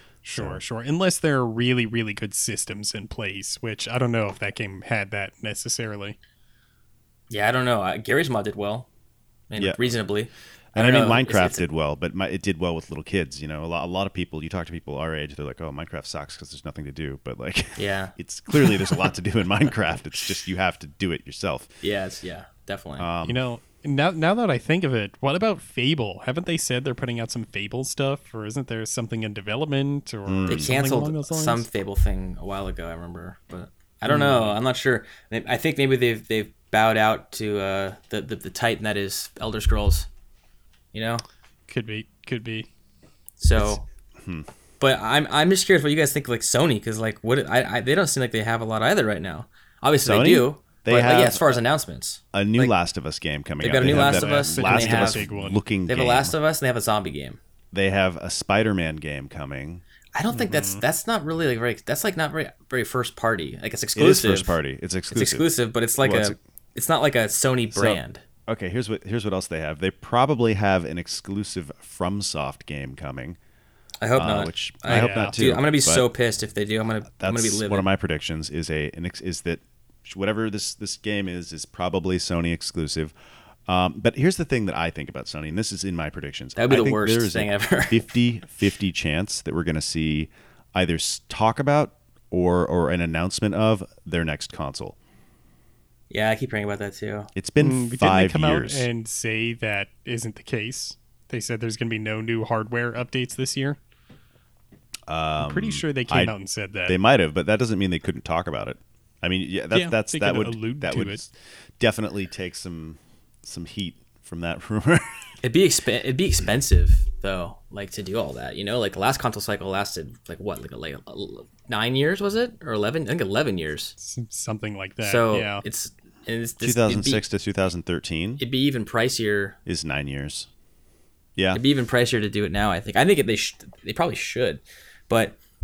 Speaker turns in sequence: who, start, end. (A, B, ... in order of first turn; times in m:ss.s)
0:00.2-0:06.2 A
0:00.3-0:00.6 B
0:07.3-0:08.9 C
0:09.5-0:11.6 C
0:09.6-0:09.9 B
0:10.7-0:21.7 B
0:17.8-0:18.1 C
0:21.8-0:23.1 C
0:23.0-0:23.4 B
0:23.2-0:31.7 A
0:30.2-0:30.8 B
0:30.5-0:40.1 C
0:34.1-0:34.6 A
0:40.9-0:41.2 C
0:41.7-0:42.7 A
0:43.4-0:43.8 C
0:43.6-0:44.5 B
0:44.8-0:52.7 C
0:50.0-0:51.6 B
0:52.3-0:56.4 B
0:53.6-0:55.3 C
0:53.8-0:55.6 A
0:55.9-0:57.4 C
0:57.7-0:59.8 B
1:00.1-1:04.6 C
1:00.3-1:00.8 A
1:03.9-1:05.4 B
1:05.1-1:08.2 C
1:06.0-1:06.4 B
1:07.7-1:13.4 B
1:14.0-1:17.8 C
1:14.1-1:16.1 B
1:14.9-1:15.4 A
1:17.2-1:23.1 B
1:23.7-1:35.0 B
1:26.6-1:28.0 C
1:36.1-1:37.3 C
1:37.3-1:38.9 B
1:37.6-1:43.8 A
1:45.1-1:46.3 B
1:45.4-1:47.0 A
1:46.9-1:55.3 B
1:49.7-1:51.2 A
1:55.4-2:03.9 C
2:04.0-2:05.6 A
2:05.0-2:07.2 C
2:06.6-2:08.4 B
2:08.4-2:09.6 C
2:09.6-2:10.5 B
2:11.4-2:11.6 B
2:11.5-2:15.4 C